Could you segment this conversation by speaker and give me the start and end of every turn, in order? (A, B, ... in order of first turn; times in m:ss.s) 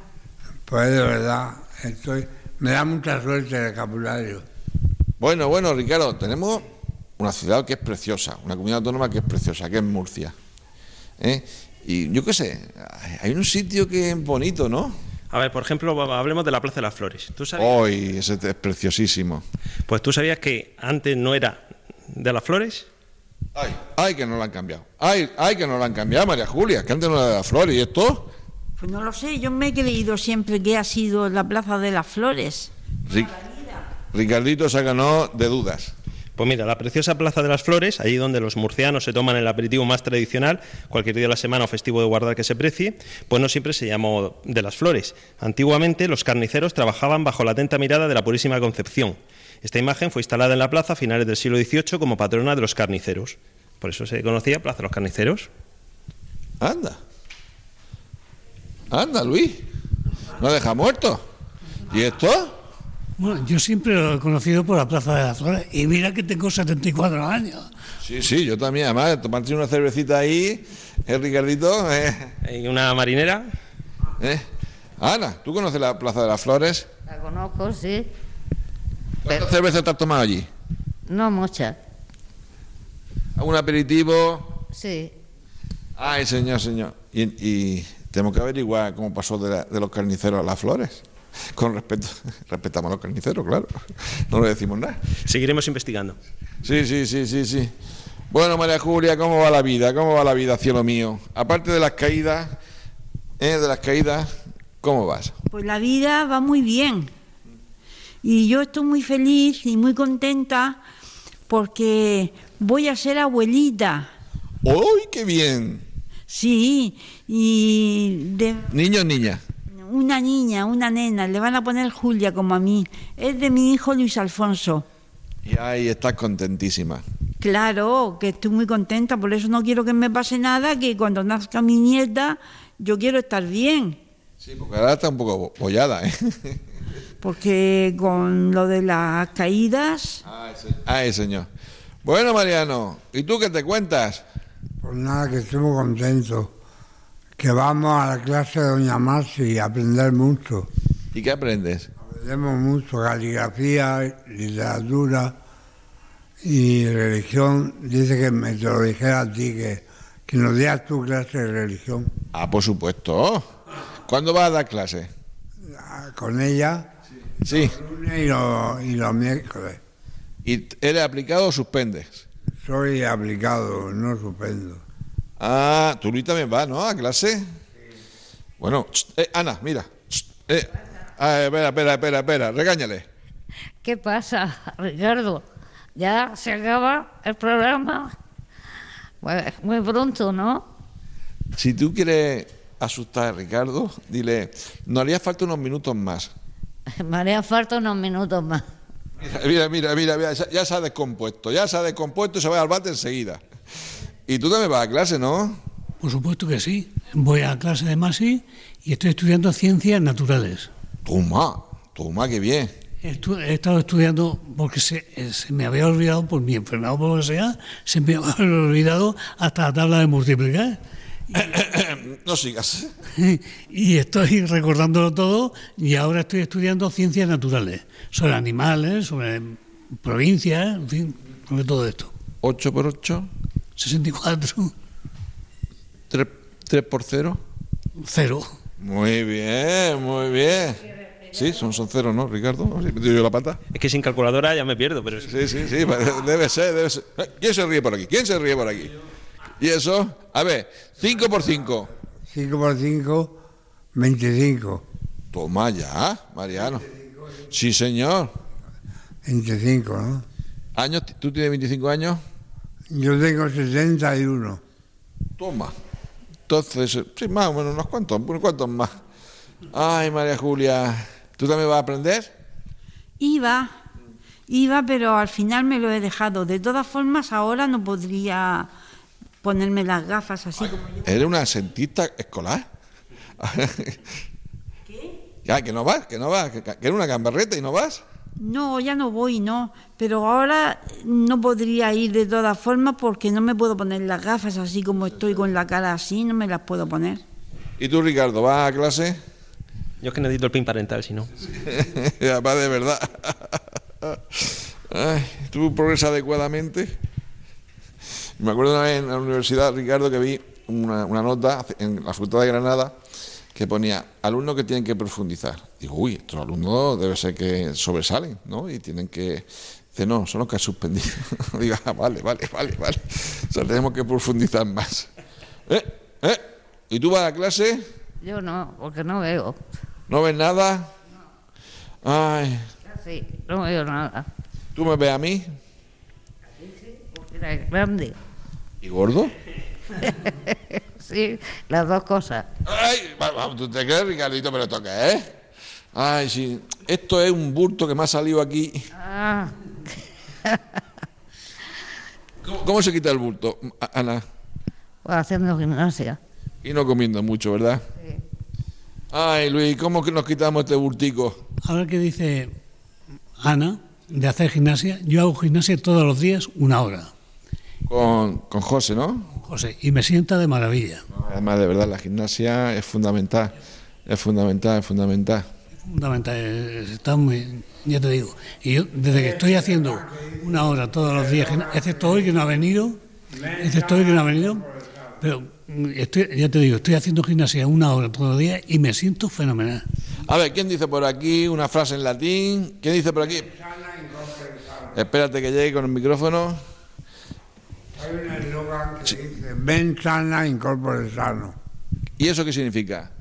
0:00.7-0:04.4 A
0:05.2-0:06.6 B
0:07.2-0:10.3 B
0:11.2-0:14.9 B
0:15.3-0:17.8 C
0:17.6-0:19.4 B
0:19.9-0:21.6 C
0:22.1-0:22.9 C
0:23.5-0:28.3 B
0:28.8-0:32.7 D
0:33.1-0:33.3 B
0:34.1-0:35.9 B
0:36.4-0:55.5 C
0:56.6-0:57.0 B
0:58.9-0:59.6 B
1:00.4-1:01.2 B
1:01.9-1:02.6 B
1:03.2-1:07.6 E
1:08.0-1:12.3 B
1:12.4-1:13.5 C
1:15.0-1:16.9 B
1:17.1-1:18.1 F
1:19.2-1:20.5 B
1:21.1-1:21.8 F
1:23.4-1:24.6 B
1:24.7-1:25.1 F
1:26.0-1:35.0 B
1:35.2-1:36.2 C
1:36.6-1:37.7 B
1:38.3-1:42.5 B
1:43.4-1:45.3 B
1:45.5-1:47.1 D
1:48.2-1:50.8 D
1:51.5-1:54.1 D
1:54.6-1:55.8 B
1:56.3-1:58.7 D
1:58.7-1:59.4 B
1:59.7-2:04.8 D
2:05.4-2:07.0 B
2:07.4-2:14.0 D
2:14.4-2:16.6 B
2:17.2-2:20.2 D
2:20.3-2:21.5 B
2:22.0-2:24.2 B
2:24.8-2:26.5 A
2:27.4-2:30.7 A
2:31.1-2:31.9 B
2:32.0-2:35.4 A
2:36.4-2:42.1 A
2:42.3-2:43.4 B
2:44.1-2:45.1 B
2:45.6-2:46.9 A
2:47.4-2:47.7 B
2:47.5-2:49.8 A
2:50.4-2:52.2 B
2:52.6-2:54.8 A
2:55.4-2:57.4 B
2:58.6-3:03.0 B
3:03.8-3:05.4 F
3:05.9-3:08.1 F
3:09.2-3:10.6 F
3:11.6-3:16.3 B
3:17.0-3:18.6 F
3:19.2-3:23.4 B
3:24.3-3:25.6 B
3:26.0-3:30.7 E
3:31.0-3:32.7 B
3:33.0-3:40.8 E
3:41.3-3:42.9 B
3:43.2-3:52.1 E
3:52.4-3:53.3 B
3:53.8-3:54.7 E
3:56.1-3:57.4 B
3:58.0-3:58.5 E
3:58.8-4:03.6 B
4:03.7-4:05.5 C
4:05.2-4:09.0 B
4:09.6-4:11.9 B
4:12.3-4:13.4 A
4:13.9-4:14.8 A
4:15.3-4:16.8 B
4:17.5-4:18.3 B
4:19.2-4:20.2 A
4:20.7-4:22.2 B
4:22.9-4:24.6 A
4:25.4-4:25.7 B
4:26.5-4:28.9 B
4:29.7-4:32.3 B
4:33.2-4:33.7 D
4:34.5-4:38.7 D
4:39.4-4:41.1 D
4:41.0-4:42.7 B
4:43.4-4:44.0 B
4:44.8-4:45.2 D
4:45.4-4:48.0 B
4:48.4-4:57.2 D
4:57.8-4:59.2 B
5:00.0-5:01.3 C
5:01.6-5:06.9 B
5:08.4-5:12.9 B
5:13.5-5:25.1 B
5:25.7-5:27.8 B
5:28.2-5:29.6 F
5:30.1-5:30.9 B
5:32.0-5:32.7 B
5:32.8-5:34.3 F
5:34.7-5:35.4 B
5:36.6-5:38.2 F
5:38.8-5:39.3 B
5:40.0-5:42.4 F
5:42.6-5:45.2 B
5:45.9-5:48.8 B
5:48.9-5:49.6 F
5:52.4-5:54.2 B
5:55.0-5:56.2 F
5:56.6-5:57.8 B
5:59.1-6:01.4 B
6:01.6-6:02.5 E
6:03.4-6:07.1 E
6:07.9-6:09.3 B
6:09.4-6:11.0 E
6:11.1-6:15.5 B
6:15.8-6:23.0 E
6:19.1-6:22.3 A
6:23.3-6:25.2 A
6:23.6-6:24.6 E
6:25.2-6:29.8 E
6:30.2-6:33.5 B
6:33.4-6:35.0 A
6:34.9-6:36.6 B
6:37.9-6:41.6 A
6:42.2-6:43.1 B